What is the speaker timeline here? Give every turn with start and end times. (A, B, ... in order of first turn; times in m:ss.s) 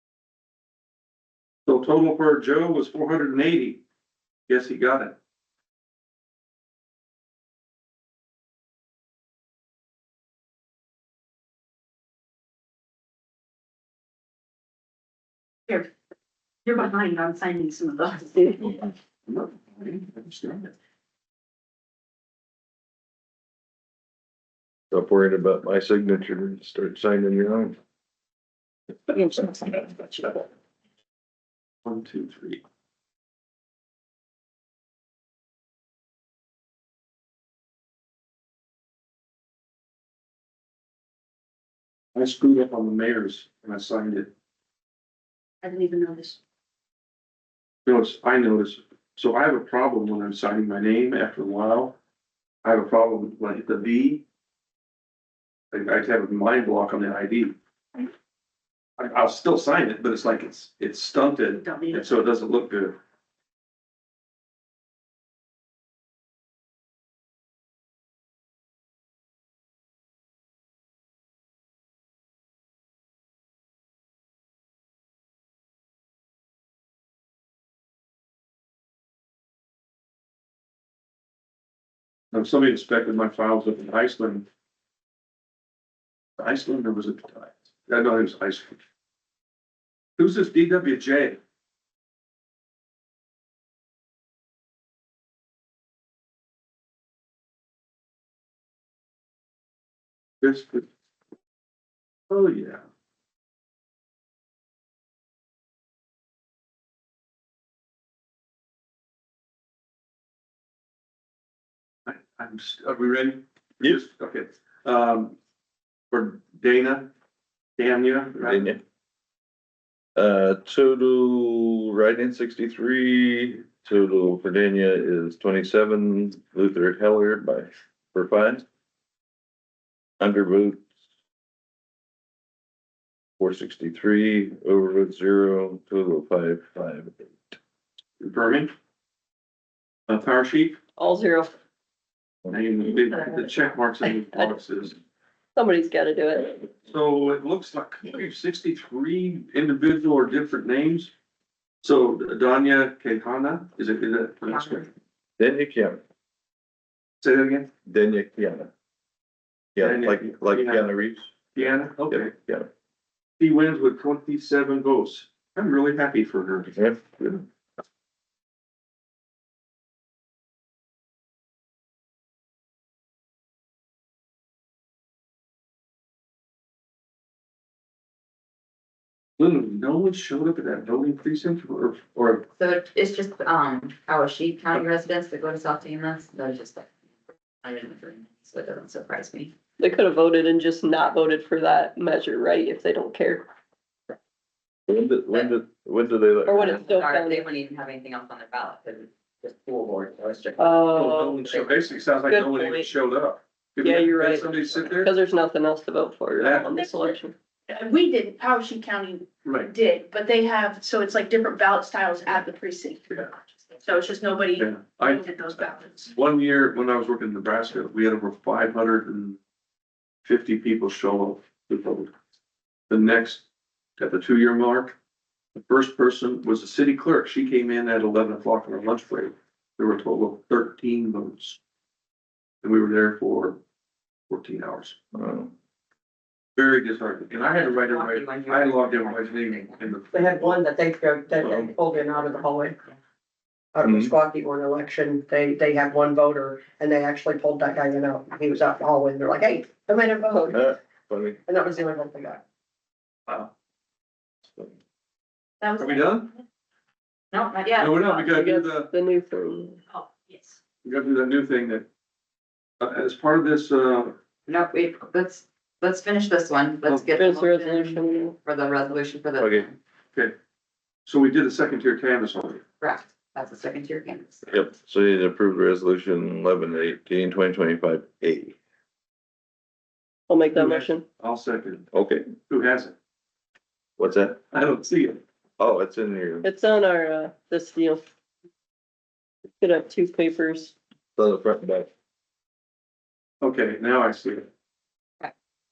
0:01.7-0:03.8 A
0:04.5-0:05.2 A
0:16.6-0:18.4 B
0:18.4-0:18.7 C
0:19.3-0:20.7 A
0:24.9-0:27.8 D
0:29.4-0:30.3 B
0:31.8-0:32.6 A
0:42.2-0:44.3 A
0:45.6-0:46.4 B
0:47.9-0:52.0 A
0:52.6-0:54.2 A
0:55.7-0:57.6 A
0:59.0-1:03.0 A
1:22.3-1:24.5 A
1:26.4-1:28.8 A
1:30.2-1:31.4 A
1:40.4-1:40.9 A
1:42.3-1:42.8 A
1:52.1-1:55.4 A
1:56.1-1:57.1 A
1:57.8-1:58.8 A
1:58.4-1:58.8 D
2:00.2-2:08.6 D
2:10.2-2:10.8 D
2:13.4-2:17.6 D
2:18.2-2:18.7 A
2:20.1-2:20.8 A
2:21.0-2:21.5 C
2:22.5-2:25.0 A
2:25.6-2:26.5 C
2:26.9-2:31.1 A
2:31.8-2:34.9 A
2:35.4-2:36.0 D
2:37.2-2:37.7 A
2:37.9-2:38.7 D
2:39.8-2:42.7 D
2:39.8-2:40.9 A
2:41.6-2:42.3 A
2:43.4-2:47.3 A
2:46.8-2:47.4 D
2:59.4-3:02.4 A
3:02.6-3:06.9 E
3:07.6-3:09.6 E
3:09.8-3:13.5 C
3:14.9-3:16.7 D
3:16.5-3:17.5 C
3:16.5-3:21.8 E
3:20.6-3:21.4 C
3:21.0-3:25.1 A
3:22.3-3:22.9 C
3:23.8-3:27.4 C
3:26.4-3:26.7 A
3:27.7-3:33.0 F
3:29.4-3:29.7 A
3:33.8-3:36.1 F
3:34.6-3:39.4 A
3:40.2-3:42.1 A
3:42.9-3:43.4 A
3:44.0-3:45.0 A
3:45.6-3:51.6 A
3:52.6-3:53.6 A
3:54.3-3:55.0 A
3:55.1-3:55.5 D
3:56.6-4:00.6 A
3:57.4-3:59.9 E
4:00.1-4:02.8 G
4:03.7-4:10.7 G
4:03.8-4:04.1 D
4:10.5-4:11.4 D
4:11.5-4:12.4 G
4:15.6-4:16.2 F
4:15.8-4:16.3 A
4:17.3-4:18.3 E
4:17.8-4:18.9 A
4:18.2-4:19.8 C
4:20.0-4:20.4 F
4:20.8-4:21.9 A
4:22.8-4:24.2 A
4:24.5-4:29.8 E
4:26.9-4:28.4 C
4:29.4-4:29.7 D
4:31.1-4:32.6 A
4:32.8-4:34.5 E
4:34.5-4:38.6 D
4:40.3-4:41.0 C
4:40.5-4:41.9 A
4:41.9-4:42.3 D
4:42.5-4:43.0 A
4:44.0-4:44.4 D
4:44.5-4:45.2 A
4:45.6-4:46.5 D
4:46.4-4:48.0 C
4:49.6-4:50.7 C
4:51.2-4:51.9 D
4:53.4-4:54.5 A